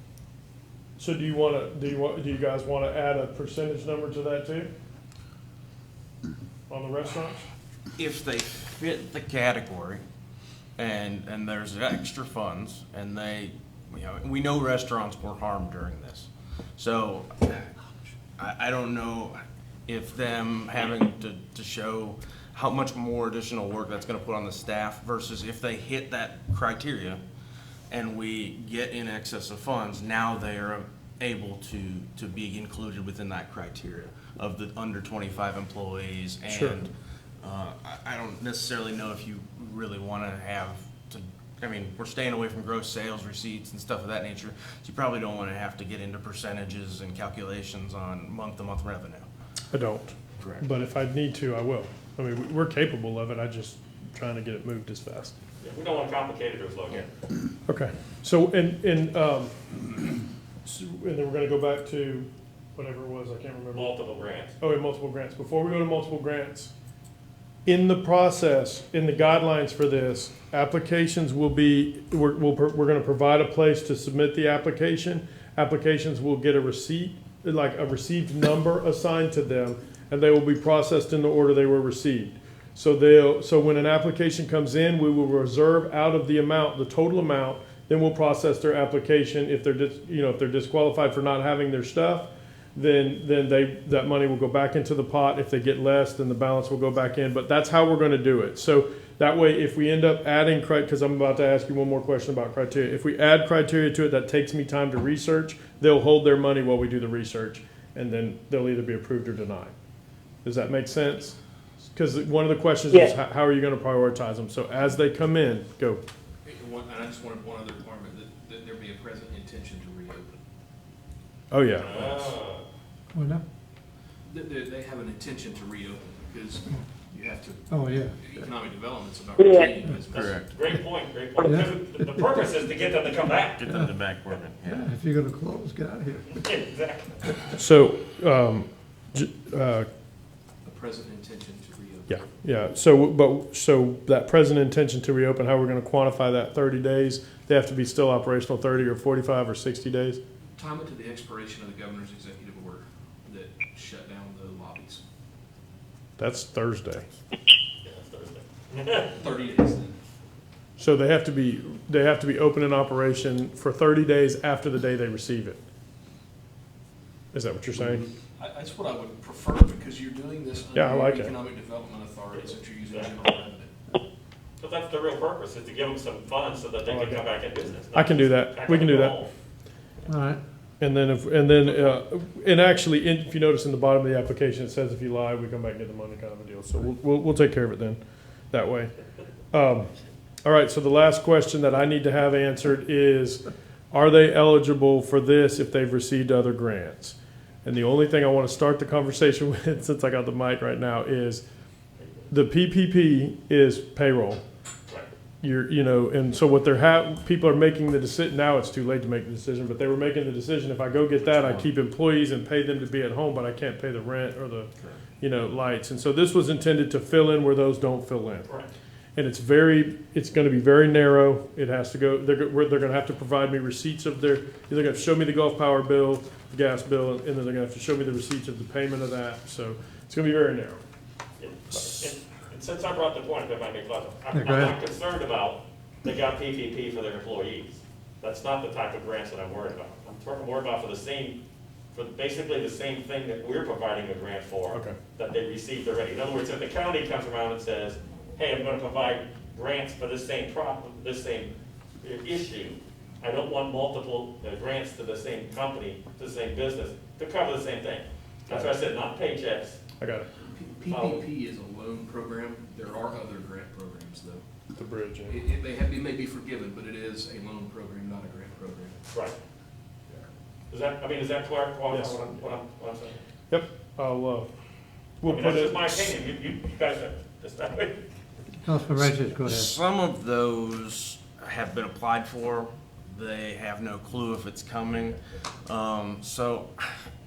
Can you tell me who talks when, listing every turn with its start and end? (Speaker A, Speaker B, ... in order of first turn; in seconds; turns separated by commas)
Speaker A: 1.0-4.7, Speaker A: 6.7-7.5, Speaker B: 8.0-10.0, Speaker B: 10.8-17.7, Speaker B: 18.4-27.2, Speaker B: 27.9-49.3, Speaker A: 36.5-36.8, Speaker A: 49.7-55.4, Speaker B: 50.4-50.6, Speaker C: 55.6-57.0, Speaker A: 57.7-59.5, Speaker A: 60.6-63.9, Speaker C: 63.7-64.5, Speaker A: 64.6-66.7, Speaker A: 67.7-109.7, Speaker A: 110.4-111.3, Speaker A: 111.9-116.0, Speaker D: 116.4-120.3, Speaker A: 121.5-122.0, Speaker C: 121.8-122.7, Speaker E: 123.1-123.4, Speaker D: 124.3-130.4, Speaker E: 127.7-128.2, Speaker B: 130.1-130.5, Speaker C: 130.2-133.6, Speaker E: 131.4-132.2, Speaker B: 133.6-134.8, Speaker E: 133.6-133.9, Speaker E: 134.6-136.4, Speaker C: 136.3-137.2, Speaker A: 137.5-139.9, Speaker D: 140.6-142.2, Speaker A: 142.1-150.2, Speaker D: 150.6-155.0, Speaker A: 156.2-157.1, Speaker C: 157.8-159.1, Speaker D: 159.1-159.9, Speaker A: 160.8-165.6, Speaker A: 167.3-168.1, Speaker D: 168.4-173.7, Speaker A: 170.7-171.3, Speaker C: 172.9-173.2, Speaker C: 174.6-179.3, Speaker A: 176.8-177.2, Speaker A: 177.9-179.2, Speaker E: 180.1-180.4, Speaker A: 180.8-188.0, Speaker C: 181.6-182.0, Speaker A: 188.5-188.9, Speaker A: 189.5-189.9, Speaker A: 190.4-201.4, Speaker C: 202.0-202.3, Speaker A: 202.3-204.4, Speaker A: 205.4-218.5, Speaker B: 211.2-211.7, Speaker C: 218.4-218.7, Speaker A: 219.1-230.8, Speaker C: 231.4-241.4, Speaker A: 231.7-232.1, Speaker E: 234.3-234.7, Speaker C: 241.9-259.8, Speaker A: 244.7-245.0, Speaker A: 260.0-260.3, Speaker D: 260.5-264.4, Speaker C: 260.9-261.2, Speaker A: 264.7-265.4, Speaker D: 265.2-269.0, Speaker C: 269.1-269.4, Speaker C: 270.7-273.2, Speaker A: 271.9-272.4, Speaker A: 273.5-274.5, Speaker A: 275.2-276.2, Speaker C: 275.2-278.0, Speaker E: 278.6-279.7, Speaker B: 279.0-286.8